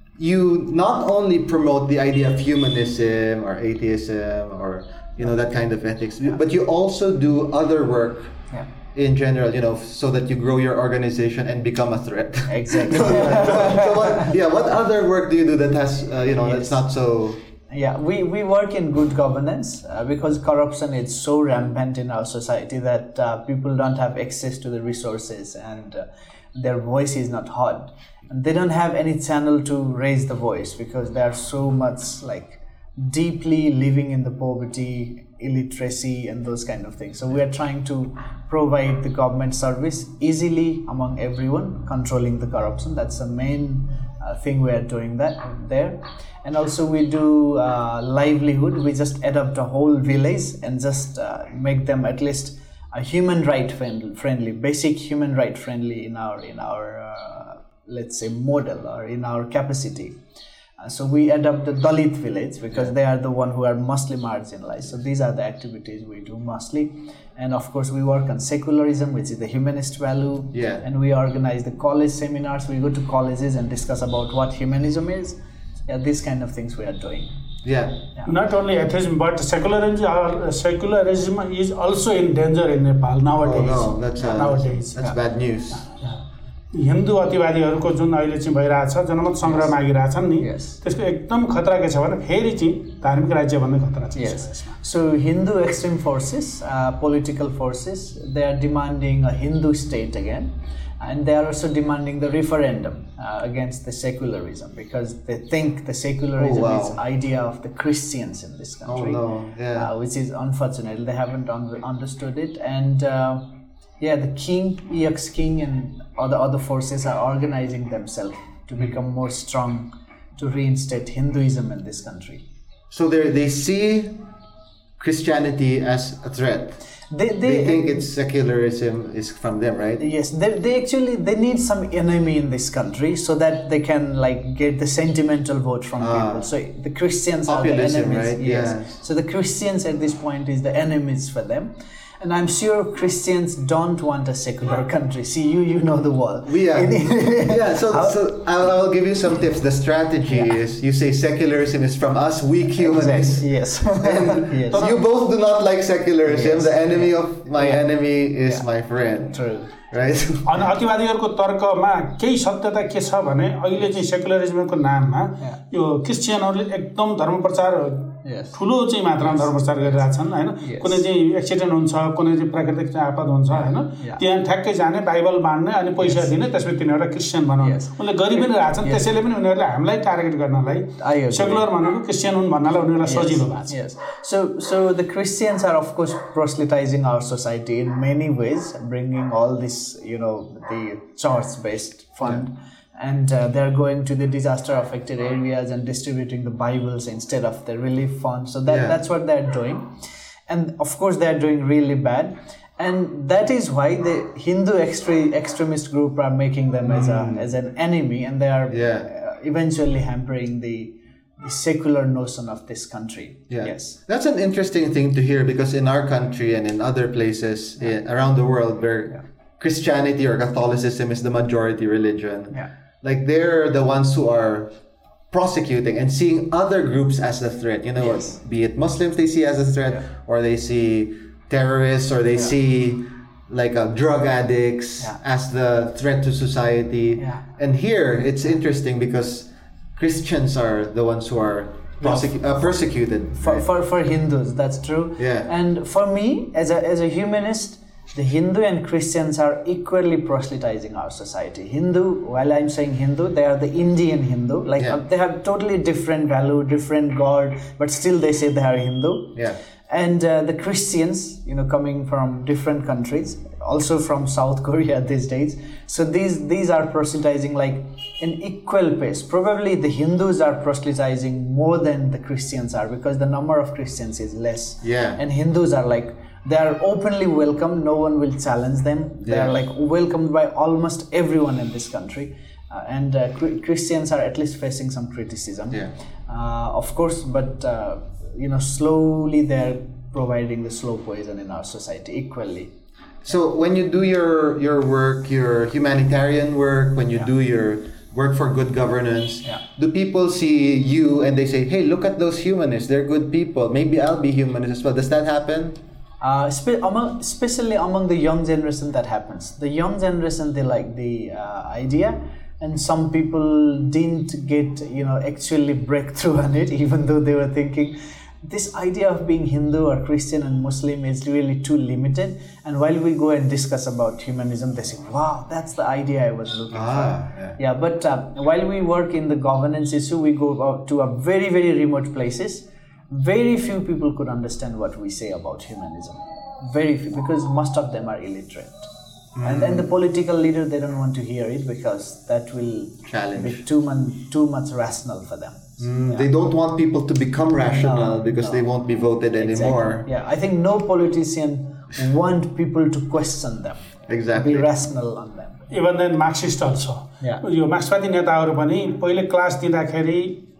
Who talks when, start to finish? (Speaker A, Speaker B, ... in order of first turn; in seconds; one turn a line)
Speaker A: 0.2-8.4
Speaker A: 8.9-17.4
Speaker B: 12.5-14.3
Speaker B: 16.4-16.8
Speaker B: 17.7-60.1
Speaker B: 60.8-77.3
Speaker A: 70.5-70.8
Speaker A: 77.6-78.0
Speaker C: 78.2-85.1
Speaker A: 83.4-85.9
Speaker C: 86.7-94.7
Speaker B: 90.4-90.8
Speaker B: 94.1-113.4
Speaker A: 106.4-107.0
Speaker A: 108.8-109.9
Speaker B: 114.0-122.4
Speaker A: 122.9-124.2
Speaker A: 125.0-126.8
Speaker B: 127.1-128.1
Speaker A: 127.4-130.0
Speaker B: 130.0-148.2
Speaker A: 136.0-136.5
Speaker A: 137.5-139.0
Speaker A: 146.4-160.6
Speaker B: 152.7-154.9
Speaker B: 156.2-157.8
Speaker B: 159.3-159.8
Speaker C: 160.4-183.7
Speaker B: 168.2-168.6
Speaker B: 169.2-170.0
Speaker B: 170.6-171.0
Speaker B: 173.5-174.2
Speaker B: 176.0-176.3
Speaker B: 177.6-179.0
Speaker B: 181.0-181.7
Speaker B: 183.0-199.9
Speaker A: 198.7-199.0
Speaker B: 200.5-214.0
Speaker A: 206.9-207.5
Speaker A: 208.7-209.1
Speaker A: 213.5-224.7
Speaker A: 225.3-243.6
Speaker B: 228.0-228.3
Speaker B: 237.2-237.4
Speaker B: 242.0-242.3
Speaker B: 243.4-259.4
Speaker A: 245.2-245.5
Speaker B: 259.9-292.7
Speaker A: 274.8-275.2
Speaker A: 279.2-279.6
Speaker A: 293.2-305.8
Speaker B: 306.2-338.9
Speaker A: 326.7-327.6
Speaker A: 339.4-339.9
Speaker B: 339.4-346.3
Speaker A: 343.1-343.6
Speaker A: 345.8-350.1
Speaker B: 347.6-348.6
Speaker B: 349.4-355.6
Speaker A: 354.1-354.7
Speaker C: 355.7-360.4